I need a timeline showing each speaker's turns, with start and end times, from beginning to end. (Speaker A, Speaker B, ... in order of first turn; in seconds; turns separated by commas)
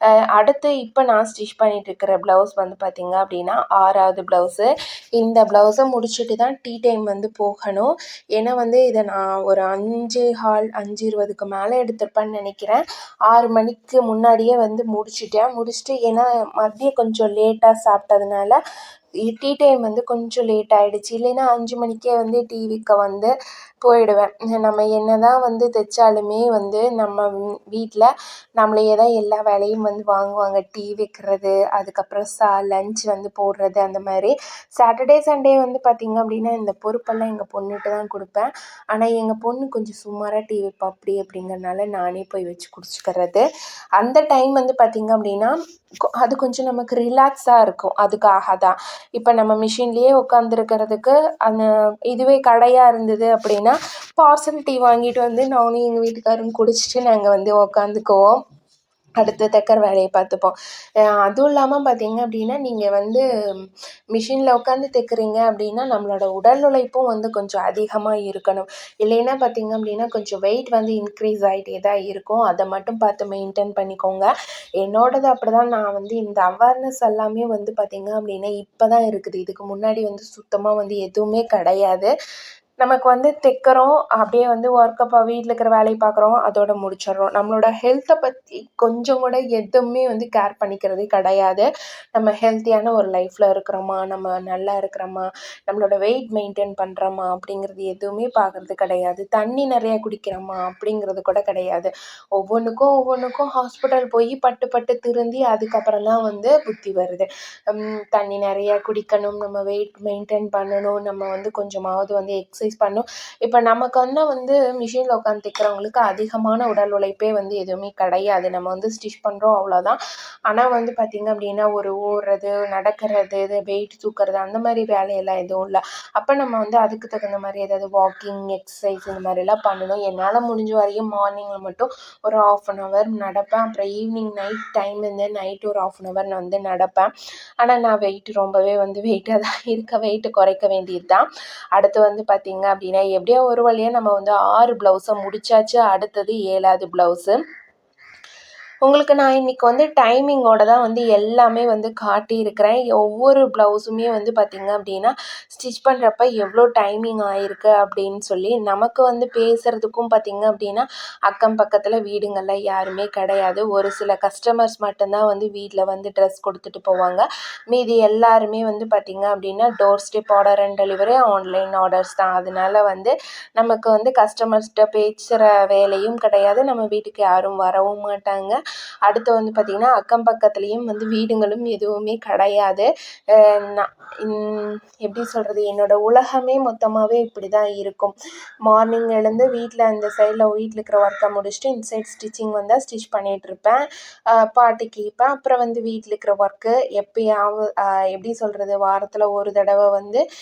Speaker A: 0.3-18.6, Speaker A: 19.3-23.3, Speaker A: 23.8-43.4, Speaker A: 44.0-45.5, Speaker A: 46.2-58.4, Speaker A: 59.2-60.5, Speaker A: 61.2-63.2, Speaker A: 64.1-74.3, Speaker A: 74.8-82.1, Speaker A: 82.8-147.4, Speaker A: 148.9-188.1, Speaker A: 188.7-193.8, Speaker A: 194.3-200.2